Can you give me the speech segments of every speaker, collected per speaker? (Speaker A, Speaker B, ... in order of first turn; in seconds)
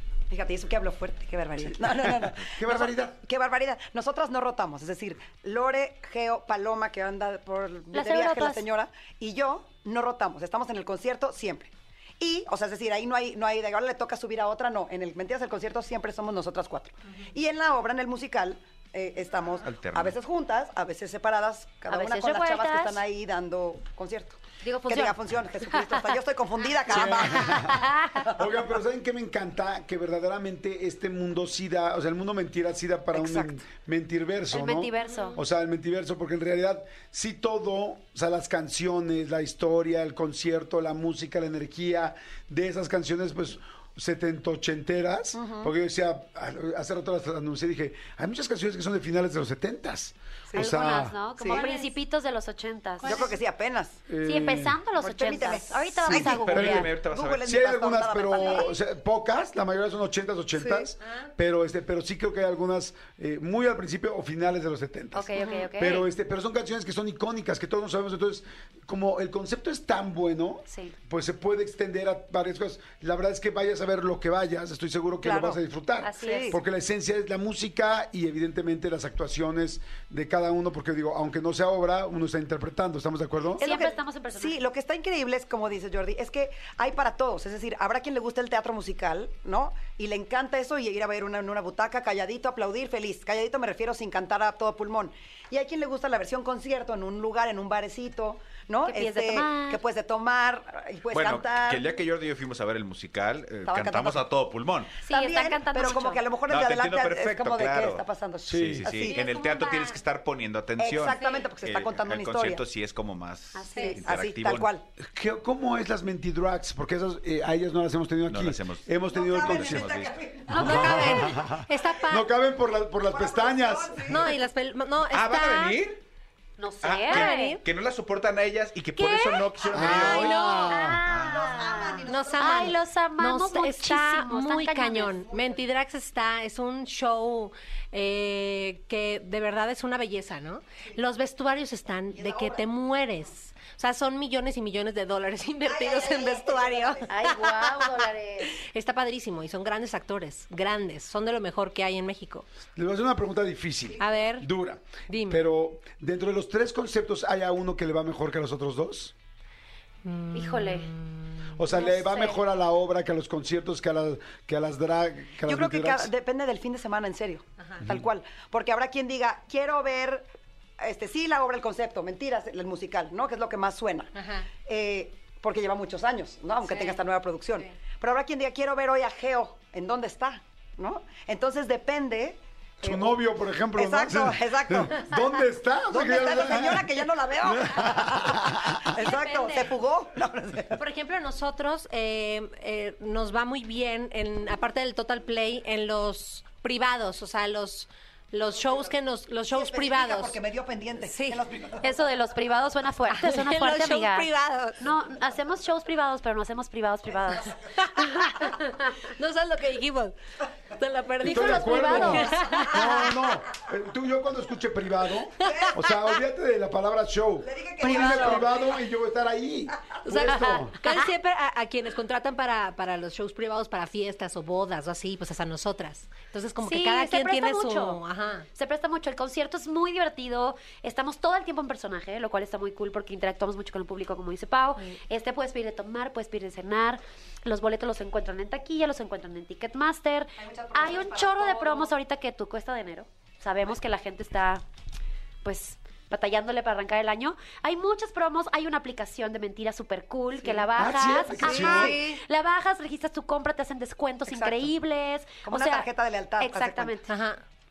Speaker A: 0.3-28.3, 45.3-45.7, 51.4-51.7, 53.0-54.0, 55.0-58.7, 60.6-60.9, 75.2-75.6, 76.2-76.6, 83.6-102.0, 103.6-104.3, 105.1-109.2, 110.8-112.6, 113.8-114.8, 119.1-121.3, 123.0-124.3, 131.2-132.8, 142.1-142.7, 145.6-147.1, 165.4-170.3, 170.8-174.1, 174.6-183.2, 183.7-185.2, 185.9-190.8, 199.5-201.9, 215.4-215.8, 217.4-218.7, 240.4-241.9, 251.4-252.0, 254.3-254.7, 255.4-256.9
Speaker B: 1.6-3.1, 26.9-51.2, 54.1-54.8, 56.0-83.7, 108.5-108.9, 115.0-120.0, 120.5-124.3, 129.7-131.0, 152.8-159.1, 161.6-166.1, 182.8-188.8, 211.2-220.7, 250.8-252.0
Speaker C: 7.9-8.7, 21.9-23.0, 24.6-25.1, 27.3-28.3, 34.5-35.4, 50.5-53.3, 54.2-56.9, 65.1-66.1, 70.7-70.9, 76.0-76.6, 83.6-84.6, 98.8-99.8, 105.0-106.2, 109.1-109.9, 113.5-114.0, 126.6-127.6, 128.9-130.0, 130.7-135.3, 147.1-148.6, 160.3-160.9, 161.9-162.3, 201.8-208.9, 211.2-212.7, 217.8-218.4, 226.6-228.0, 228.6-244.6, 245.4-255.9, 256.4-257.1
Speaker D: 19.6-20.1, 56.4-57.4, 101.1-104.9, 106.5-114.7, 118.3-120.1, 125.1-126.0, 126.8-130.4, 131.1-131.6
Speaker E: 51.5-51.9, 53.0-53.3, 109.3-109.8, 113.7-114.0, 120.5-122.3, 124.1-125.8, 127.1-127.6, 130.0-131.0, 132.1-147.9, 148.6-152.4, 154.0-154.5, 155.1-155.4, 160.0-162.3, 174.1-174.5, 176.6-177.0, 188.9-189.7, 190.7-200.4, 201.0-201.4, 203.1-204.8, 207.8-208.6, 209.2-210.2, 210.7-213.2, 220.0-228.4, 251.7-252.2, 257.1-257.4